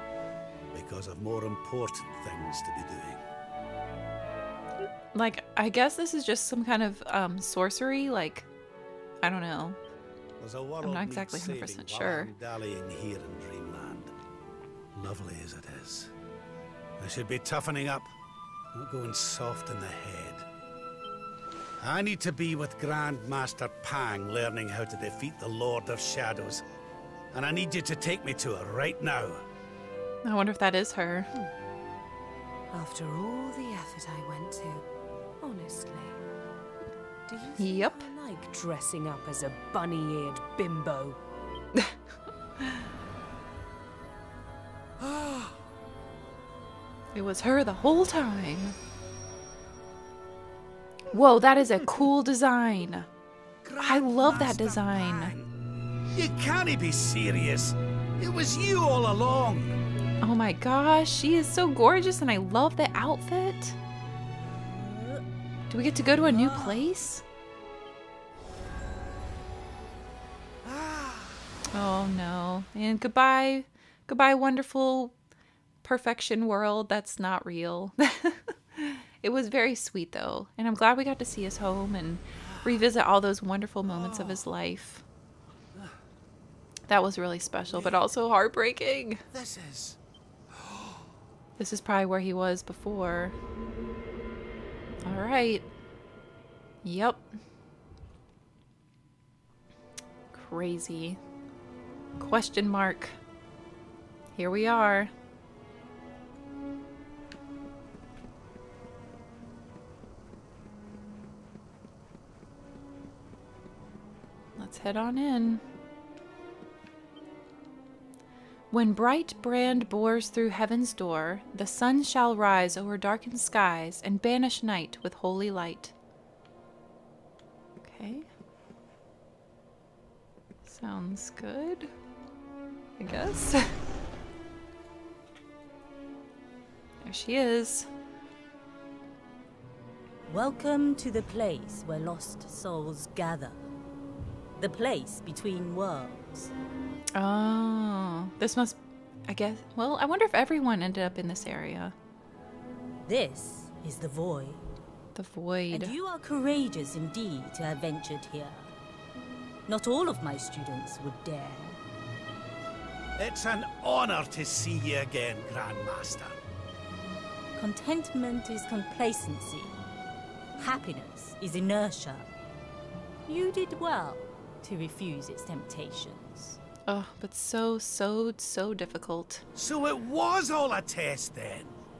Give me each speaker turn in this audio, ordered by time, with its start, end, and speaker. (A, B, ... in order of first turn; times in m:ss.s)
0:00.7-0:03.2 A
0:05.1-0:08.5 B
0:09.2-0:09.8 B
0:10.4-0:14.1 A
0:10.8-0:12.3 B
0:15.0-0:16.1 A
0:17.0-0:18.1 A
0:18.7-0:20.4 A
0:21.8-0:26.6 A
0:27.3-0:29.4 A
0:30.2-0:31.3 B
0:32.7-0:34.9 C
0:35.4-0:36.2 C
0:37.3-0:41.2 C
0:37.6-0:38.1 B
0:45.0-0:45.5 A
0:47.1-0:48.8 B
0:51.1-0:53.1 B
0:53.6-0:55.5 A
0:53.8-0:55.4 B
0:56.1-0:59.8 A
1:00.2-1:03.8 B
1:04.8-1:05.2 D
1:05.7-1:07.2 B
1:06.3-1:06.8 A
1:10.7-1:11.2 A
1:11.7-1:15.2 B
1:15.8-1:25.0 B
1:22.4-1:22.9 A
1:23.9-1:24.4 A
1:26.9-1:29.2 B
1:27.7-1:28.0 A
1:29.3-1:30.0 A
1:30.5-1:31.1 A
1:31.6-1:33.4 B
1:35.0-1:35.7 B
1:36.8-1:37.2 B
1:40.3-1:41.2 B
1:42.2-1:43.2 B
1:44.4-1:45.1 B
1:54.6-1:55.6 B
1:58.7-2:05.9 B
2:07.8-2:08.3 B
2:10.7-2:11.9 B
2:13.0-2:13.7 B
2:17.0-2:17.9 B
2:20.3-2:23.6 D
2:24.6-2:26.5 D
2:27.2-2:31.9 B
2:33.1-2:34.6 D
2:35.2-2:36.0 B
2:35.7-2:38.7 D
2:39.7-2:41.8 D
2:43.2-2:46.4 A
2:47.6-2:49.7 D
2:50.6-2:52.3 D
2:53.3-2:56.6 D
2:56.9-2:59.4 B
2:59.6-3:01.7 A